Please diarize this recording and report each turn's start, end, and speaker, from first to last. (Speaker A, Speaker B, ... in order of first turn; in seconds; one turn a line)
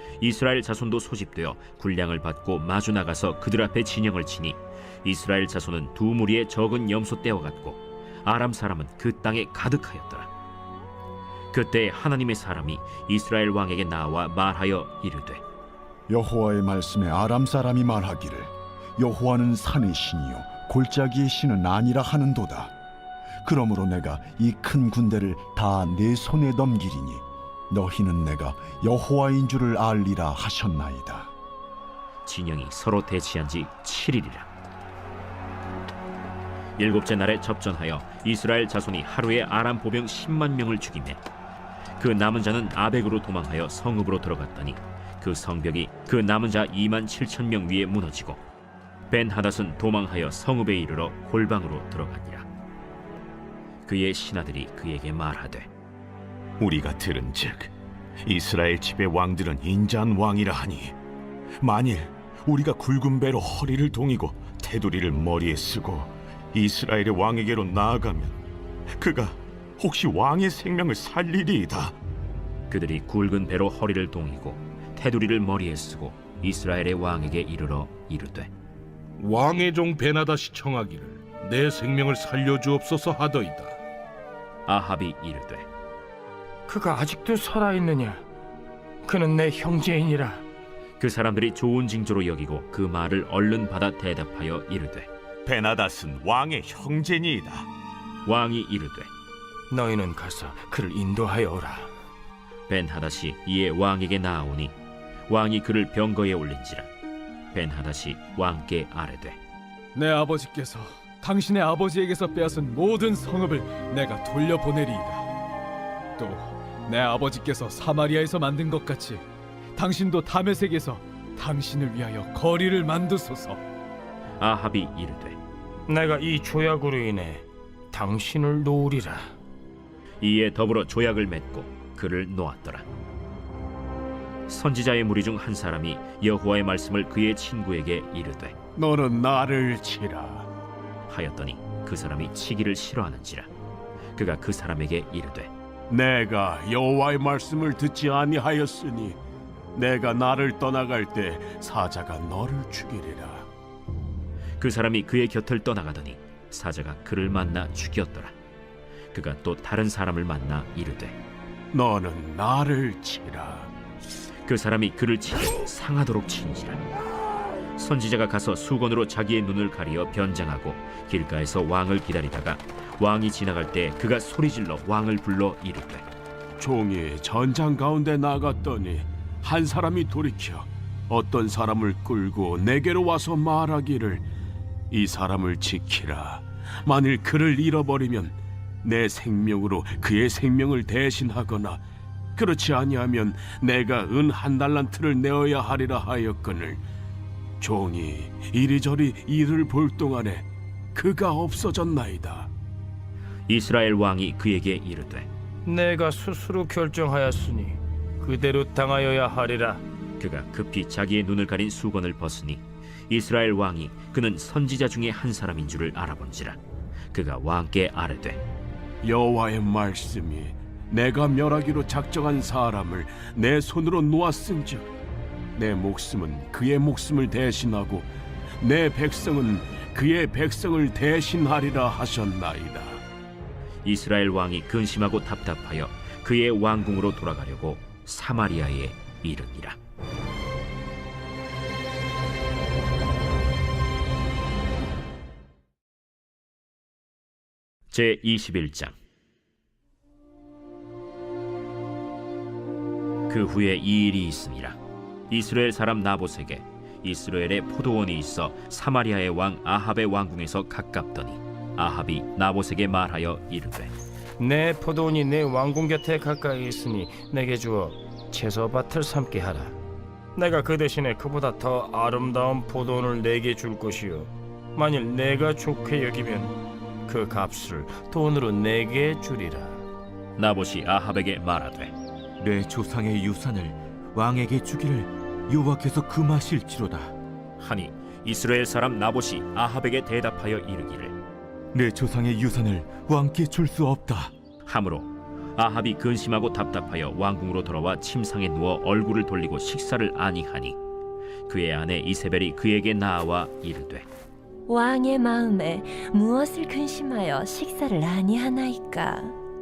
Speaker A: 0.2-10.3
Speaker A: 11.5-15.4
Speaker B: 16.1-22.7
Speaker B: 23.4-31.3
Speaker A: 32.2-34.5
Speaker A: 36.8-41.2
Speaker A: 42.0-48.4
Speaker A: 49.1-52.5
Speaker A: 53.9-55.7
Speaker C: 56.6-57.7
Speaker C: 58.2-61.0
Speaker C: 61.6-68.4
Speaker C: 69.0-72.0
Speaker A: 72.7-78.5
Speaker D: 79.2-83.8
Speaker A: 84.7-85.7
Speaker E: 86.7-88.2
Speaker E: 89.0-90.4
Speaker A: 91.0-95.1
Speaker C: 95.5-97.7
Speaker A: 98.3-99.1
Speaker E: 99.7-101.9
Speaker A: 102.7-104.8
Speaker A: 105.3-106.9
Speaker A: 107.5-109.4
Speaker F: 110.0-115.3
Speaker F: 116.2-119.2
Speaker F: 119.8-123.6
Speaker A: 124.4-125.4
Speaker E: 125.9-129.3
Speaker A: 130.2-132.9
Speaker A: 134.5-138.6
Speaker G: 138.8-140.5
Speaker A: 141.1-143.5
Speaker A: 144.2-145.5
Speaker G: 145.9-149.2
Speaker G: 149.8-153.5
Speaker A: 154.6-158.3
Speaker A: 159.1-161.2
Speaker G: 161.7-163.7
Speaker A: 164.5-166.8
Speaker A: 167.8-176.1
Speaker G: 176.6-184.2
Speaker G: 184.9-191.8
Speaker G: 192.4-196.8
Speaker G: 197.6-202.5
Speaker A: 203.5-205.3
Speaker E: 205.7-209.8
Speaker A: 210.2-216.6
Speaker A: 217.1-218.4
Speaker G: 219.0-224.9
Speaker G: 225.6-228.1
Speaker G: 228.6-233.0
Speaker A: 233.8-239.8
Speaker A: 247.9-249.0
Speaker A: 253.3-254.8
Speaker A: 255.3-263.9
Speaker E: 264.4-269.8
Speaker E: 270.4-279.8
Speaker A: 280.4-281.9
Speaker H: 282.4-287.1
Speaker A: 287.6-291.1
Speaker H: 291.7-294.3
Speaker A: 294.7-300.8
Speaker A: 301.5-304.1
Speaker I: 304.7-309.4